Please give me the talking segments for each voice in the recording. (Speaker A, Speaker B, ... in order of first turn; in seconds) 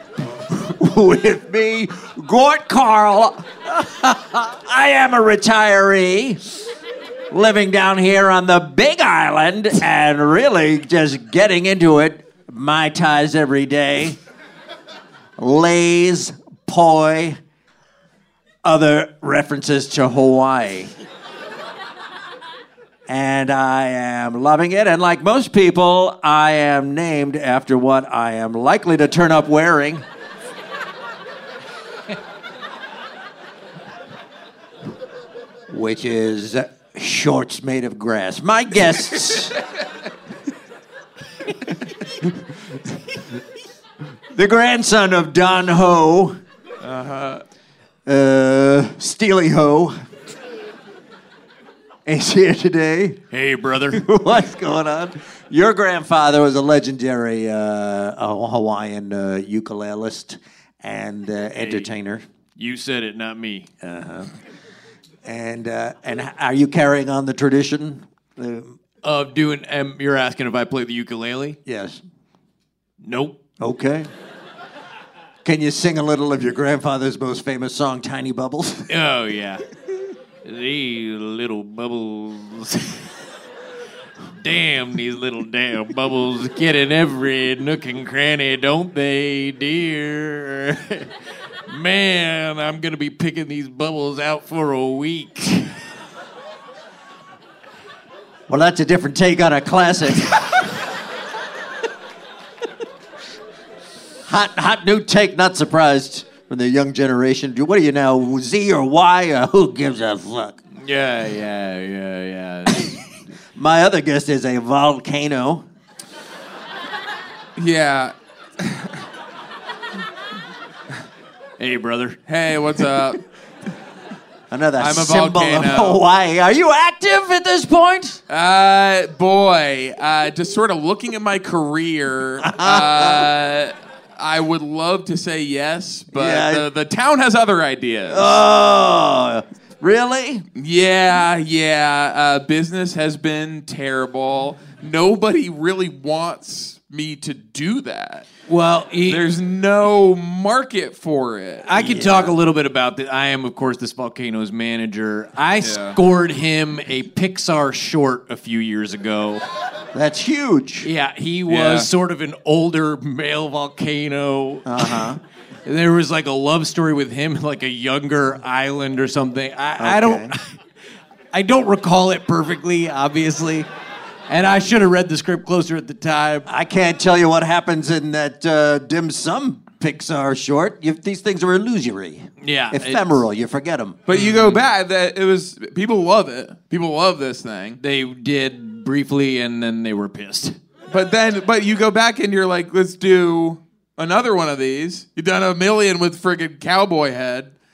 Speaker A: 0.2-6.4, 7.3-14.2, 15.4-17.4, 18.6-20.9, 23.1-30.1, 35.7-39.6, 44.3-46.4, 48.1-50.0, 52.1-53.2, 53.9-62.3, 63.8-64.3, 65.2-68.8, 71.7-72.0, 73.6-74.1, 75.4-78.9, 98.5-100.5, 104.3-110.6, 113.6-115.7, 124.5-128.2, 132.4-133.3, 136.1-136.7, 138.1-140.4, 151.8-152.4, 159.9-160.9, 164.7-165.2, 169.8-170.3, 176.5-184.0
Speaker B: 46.8-47.4, 117.6-119.0, 122.3-123.2, 124.8-126.0, 128.3-138.4, 140.6-148.3, 149.1-151.7, 155.6-156.0, 161.5-161.9, 184.1-187.8, 190.9-197.5
Speaker C: 53.3-54.1, 61.6-61.9, 62.6-63.7, 69.0-71.6, 73.0-73.4, 78.9-79.6, 80.4-83.1, 84.4-91.1, 91.7-95.7, 110.8-112.9, 121.6-122.2, 148.5-149.2, 151.7-159.4, 160.8-165.1, 165.7-170.6, 171.3-173.7, 174.3-176.5, 182.4-183.2, 184.1-184.6, 187.8-190.6